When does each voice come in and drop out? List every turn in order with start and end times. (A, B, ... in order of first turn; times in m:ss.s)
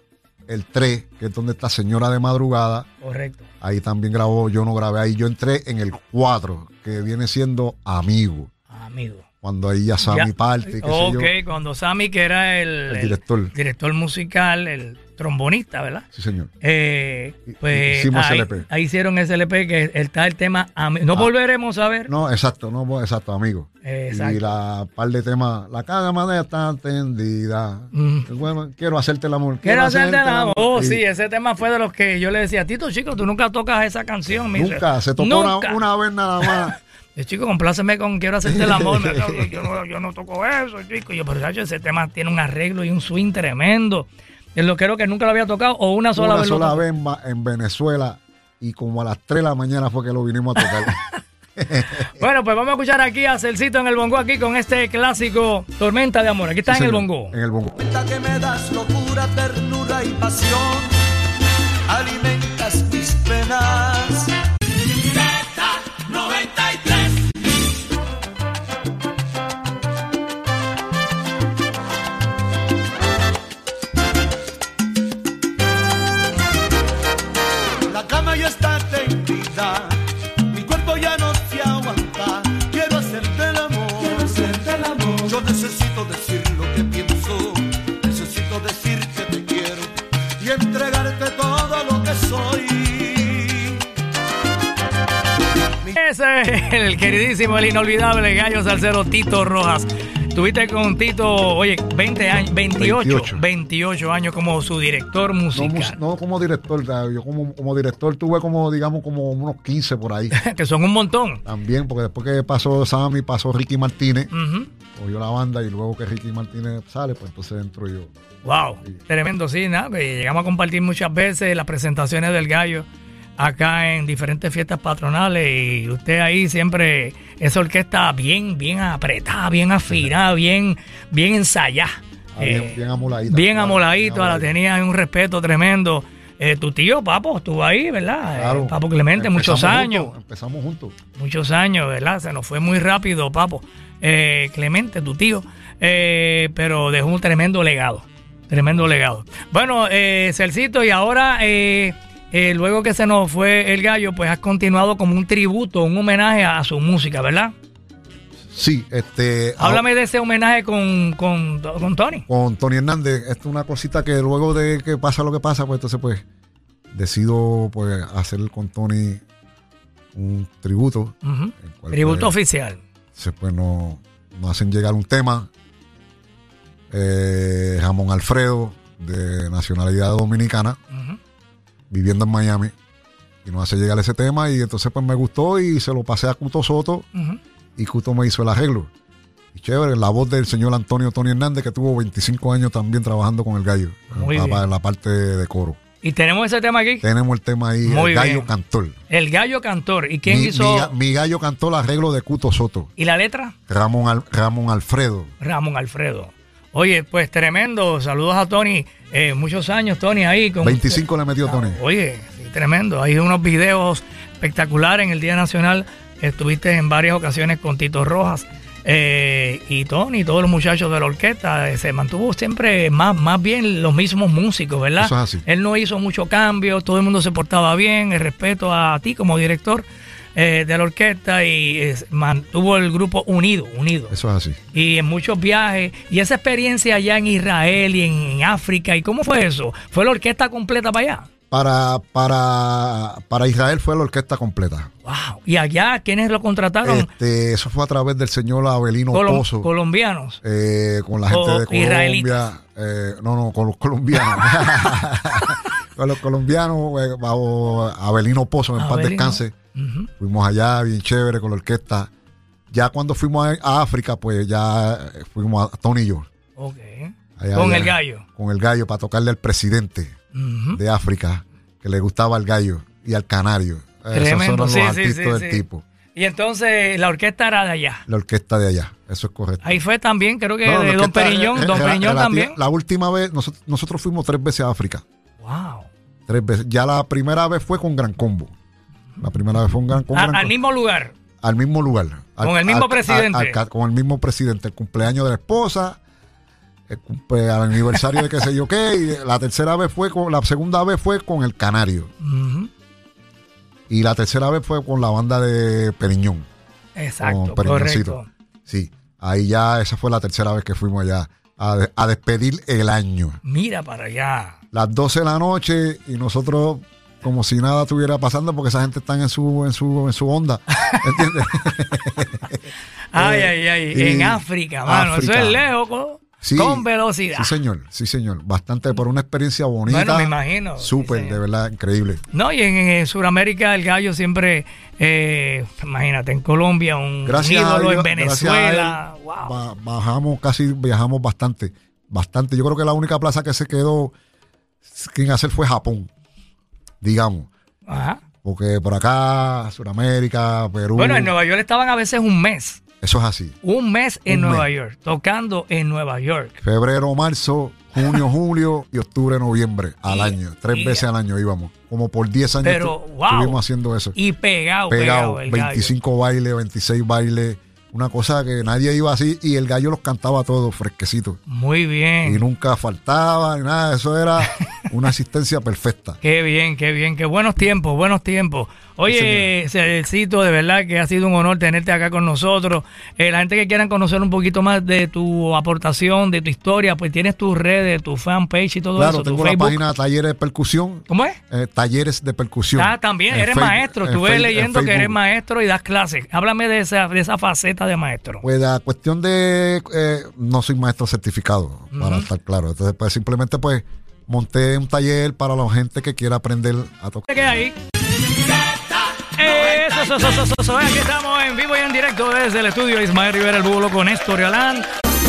0:00.5-0:02.9 A
0:03.0-0:03.5 B
0:03.6-0:08.5 A
0:08.7-0:09.2 B
0:09.4-0:11.3 A
0:10.1-0:16.0 B
0:12.9-0:13.5 A
0:16.1-0:16.5 A
0:16.6-0:22.1 B
0:17.5-0:18.7 A
0:22.1-0:31.0 A
0:23.8-0:24.5 B
0:27.9-0:28.3 B
0:29.6-0:35.8 B
0:34.5-0:36.8 A
0:36.4-0:46.8 B
0:38.4-0:39.6 A
0:46.2-0:51.0 A
0:50.6-0:50.9 B
0:51.6-0:52.1 A
0:52.1-0:57.4 B
0:56.6-0:57.8 A
0:57.8-1:00.9 C
1:01.9-1:04.3 C
1:17.9-1:20.0 C
1:20.5-1:29.9 C
1:30.4-1:33.7 C
1:35.9-1:46.0 B
1:42.8-1:43.4 A
1:45.5-1:50.4 A
1:50.3-1:51.4 B
1:51.4-1:54.3 A
1:54.3-1:54.7 B
1:55.0-1:58.1 A
1:58.4-2:02.9 B
2:03.4-2:12.8 B
2:12.3-2:14.6 A
2:13.3-2:20.1 B
2:18.3-2:21.0 A
2:21.2-2:37.5 B
2:38.5-2:39.8 A
2:39.6-2:42.3 B
2:42.3-2:46.2 A
2:46.9-2:49.2 A
2:50.1-2:52.3 A
2:51.2-2:52.8 B
2:53.2-2:55.5 A
2:56.9-3:00.8 A
3:00.9-3:01.2 B
3:01.9-3:02.7 A
3:03.4-3:07.1 A
3:07.8-3:08.9 A
3:09.5-3:15.8 A
3:14.1-3:14.6 B
3:16.0-3:17.1 B
3:17.0-3:19.0 A
3:17.8-3:18.5 B
3:19.1-3:20.9 B
3:20.2-3:22.9 A
3:23.0-3:23.6 B
3:23.7-3:25.3 A
3:25.4-3:49.8 B
3:30.6-3:31.8 A
3:45.0-3:45.4 A
3:50.4-3:54.2 B
3:54.1-3:54.6 A
3:54.7-4:01.3 B
4:01.5-4:04.9 A
4:05.0-4:07.1 B
4:06.8-4:09.7 A
4:09.1-4:10.4 B
4:10.4-4:19.6 A
4:11.3-4:12.4 B
4:18.8-4:20.1 B
4:20.2-4:22.1 A
4:22.7-4:26.3 A
4:26.6-4:28.2 B
4:27.4-4:30.2 A
4:30.3-4:30.8 B
4:30.7-4:35.8 A
4:34.1-4:35.6 B
4:36.2-4:38.0 B
4:38.1-4:39.8 A
4:39.6-4:42.6 B
4:40.6-4:45.0 A
4:45.4-4:45.9 B
4:46.3-4:48.5 A
4:49.2-4:50.5 A
4:50.1-4:51.1 B
4:51.4-4:56.0 A
4:52.4-4:53.6 B
4:56.9-5:02.1 A
5:02.2-5:02.7 B
5:03.9-5:06.5 A
5:07.0-5:08.3 B
5:07.2-5:13.4 A
5:13.4-5:14.6 B
5:14.7-5:22.6 A
5:20.7-5:21.3 B
5:23.1-5:27.6 B
5:23.2-5:25.7 A
5:26.4-5:32.2 A
5:29.9-5:31.4 B
5:32.3-5:39.6 B
5:37.3-5:44.1 A
5:44.8-5:46.1 A
5:47.0-5:47.5 A
5:47.9-5:48.2 B
5:48.4-5:51.3 A
5:51.0-5:52.8 B
5:53.0-5:53.6 A
5:53.6-5:56.6 B
5:54.3-5:54.7 A
5:56.6-6:04.2 A
6:00.1-6:01.0 B
6:02.6-6:03.6 B
6:04.1-6:05.9 B
6:04.9-6:11.4 A
6:11.5-6:12.4 B
6:12.2-6:16.2 A
6:16.2-6:29.8 B
6:19.1-6:19.5 A
6:29.0-6:35.2 A
6:31.1-6:31.4 B
6:32.8-6:38.4 B
6:38.4-6:47.3 A
6:41.9-6:42.3 B
6:47.3-6:47.8 B
6:49.4-6:54.9 B